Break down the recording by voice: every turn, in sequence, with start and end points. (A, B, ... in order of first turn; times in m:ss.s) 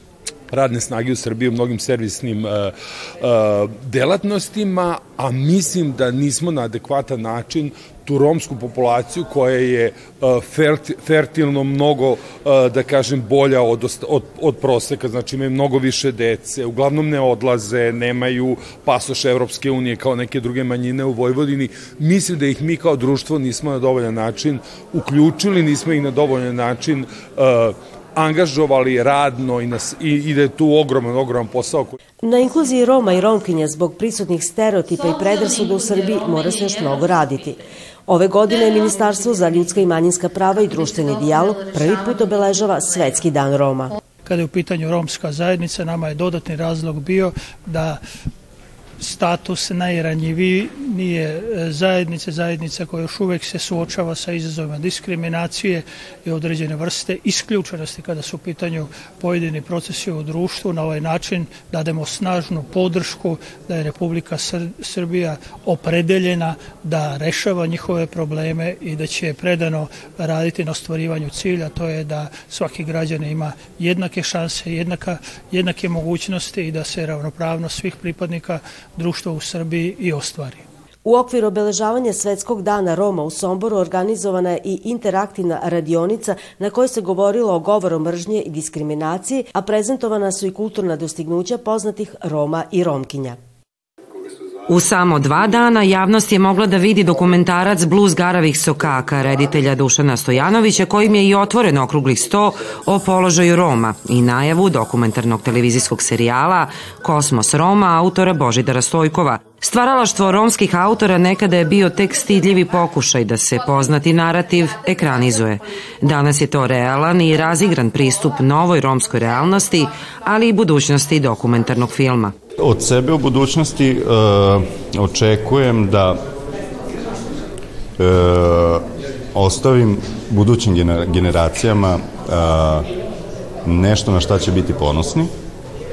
0:00.5-0:31.9 A
0:32.2-0:44.0 B
0:44.2-0:48.0 C
0:49.0-1:20.6 C
1:21.0-1:33.4 B
1:34.7-2:02.3 D
2:02.6-2:06.2 E
2:08.0-2:12.9 E
2:13.6-2:15.3 E